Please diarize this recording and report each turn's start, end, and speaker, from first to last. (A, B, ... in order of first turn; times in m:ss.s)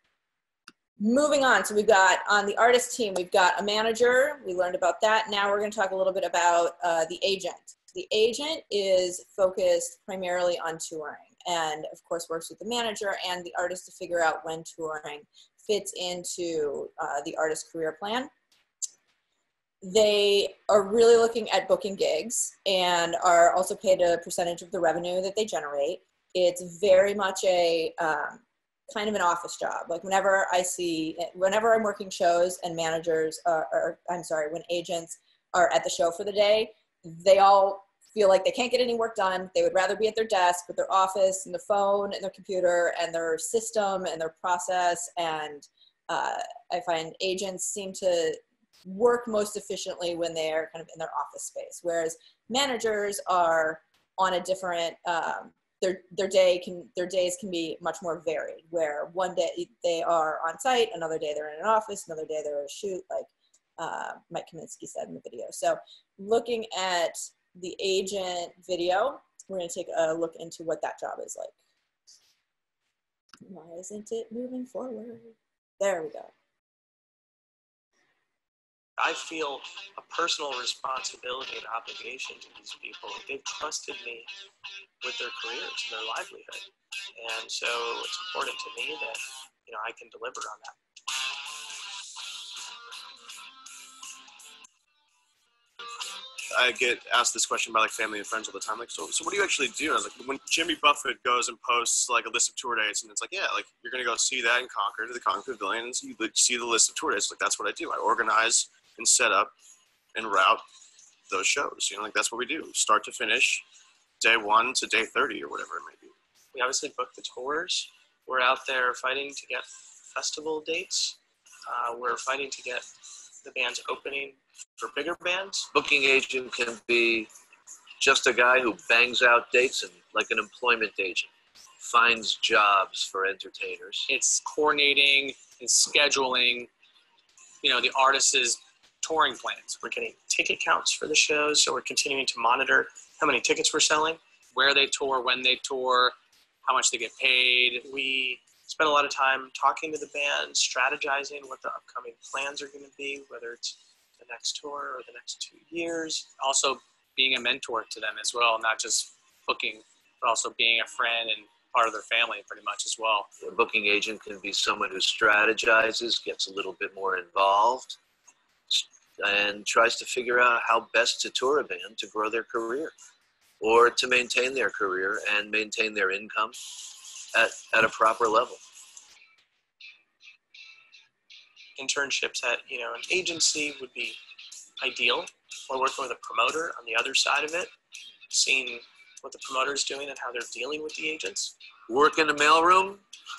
0:01.0-0:18.3 A
0:19.8-1:11.6 A
1:13.5-1:16.3 A
1:19.0-1:24.3 B
1:25.0-1:30.8 B
1:36.5-1:49.5 C
1:50.1-1:50.6 C
1:51.3-1:53.6 C
1:54.2-1:56.1 C
1:56.5-2:02.9 B
2:03.4-2:05.7 B
2:05.7-2:07.3 D
2:08.0-2:14.1 D
2:14.1-2:16.7 E
2:17.6-2:19.8 E
2:19.8-2:24.2 B
2:24.5-2:27.8 E
2:27.8-2:36.3 B
2:36.4-2:43.3 E
2:43.4-2:48.0 D
2:48.7-2:52.9 D
2:53.6-2:56.6 D
2:57.3-2:58.6 D
3:01.8-3:04.2 B
3:04.8-3:07.7 B
3:08.3-3:11.5 B
3:11.9-3:13.0 D